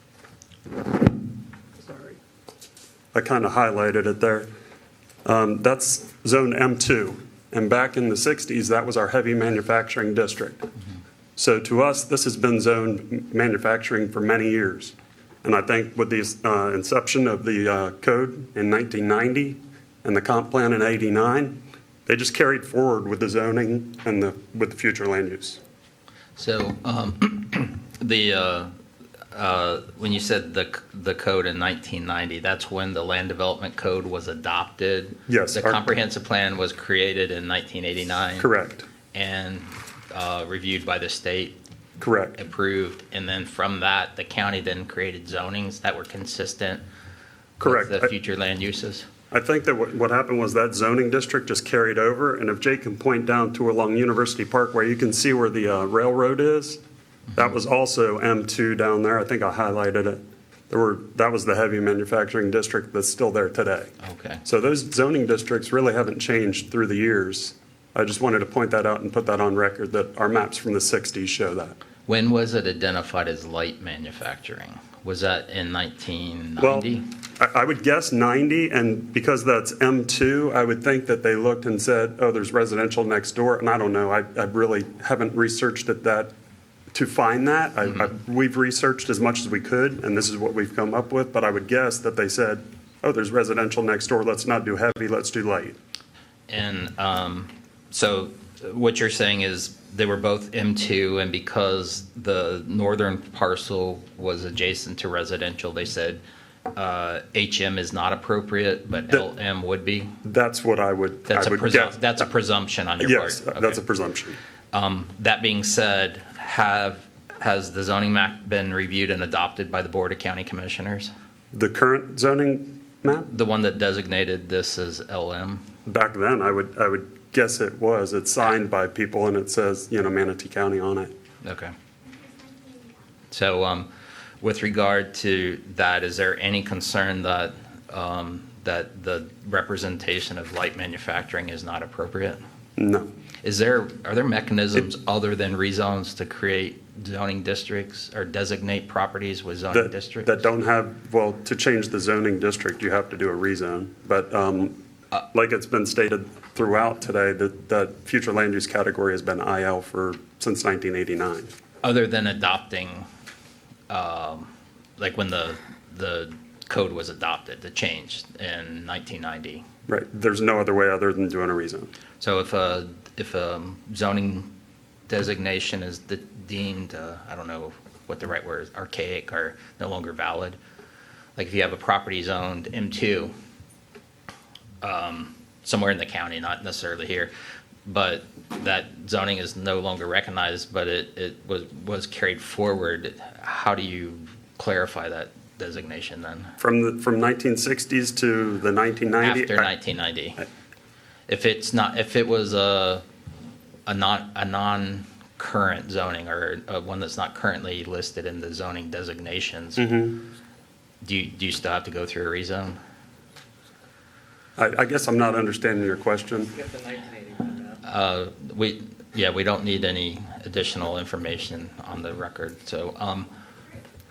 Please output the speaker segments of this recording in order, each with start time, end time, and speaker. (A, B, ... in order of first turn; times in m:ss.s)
0:03.1-0:04.5 A
0:05.2-0:10.6 A
0:11.4-0:25.6 A
0:26.4-0:28.7 B
0:29.3-0:38.5 B
0:35.3-0:35.9 A
0:38.4-0:38.9 A
0:39.1-0:41.6 B
0:42.0-0:42.4 A
0:42.4-0:46.8 B
0:47.6-0:48.1 A
0:47.6-0:49.0 B
0:49.3-0:56.8 A
0:57.3-1:03.9 A
1:04.0-1:04.4 B
1:04.4-1:11.8 A
1:12.1-1:17.0 B
1:16.6-1:26.3 A
1:26.9-1:35.8 A
1:36.5-1:46.2 B
1:46.7-1:50.1 B
1:50.2-1:52.3 A
1:51.3-1:53.8 B
1:53.0-1:54.4 A
1:54.7-2:01.1 B
2:01.5-2:03.3 A
2:03.2-2:05.6 B
2:05.8-2:11.1 A
2:11.4-2:11.7 B
2:13.3-2:13.9 B
2:14.4-2:22.4 B
2:22.8-2:23.1 A
2:23.4-2:30.3 B
2:29.7-2:34.8 A
2:35.3-2:41.5 A
2:41.8-2:43.0 B
2:43.9-2:49.6 B
2:49.9-2:51.9 A
2:52.2-2:54.5 B
2:55.1-3:00.6 B
3:01.4-3:03.3 B
3:04.8-3:07.3 B
3:07.8-3:16.5 B
3:16.6-3:19.7 A
3:19.2-3:20.4 B
3:21.3-3:23.0 B
3:23.9-3:29.9 B
3:29.8-3:30.2 A
3:31.0-3:32.8 B
3:34.6-3:36.5 A
3:37.8-3:43.3 B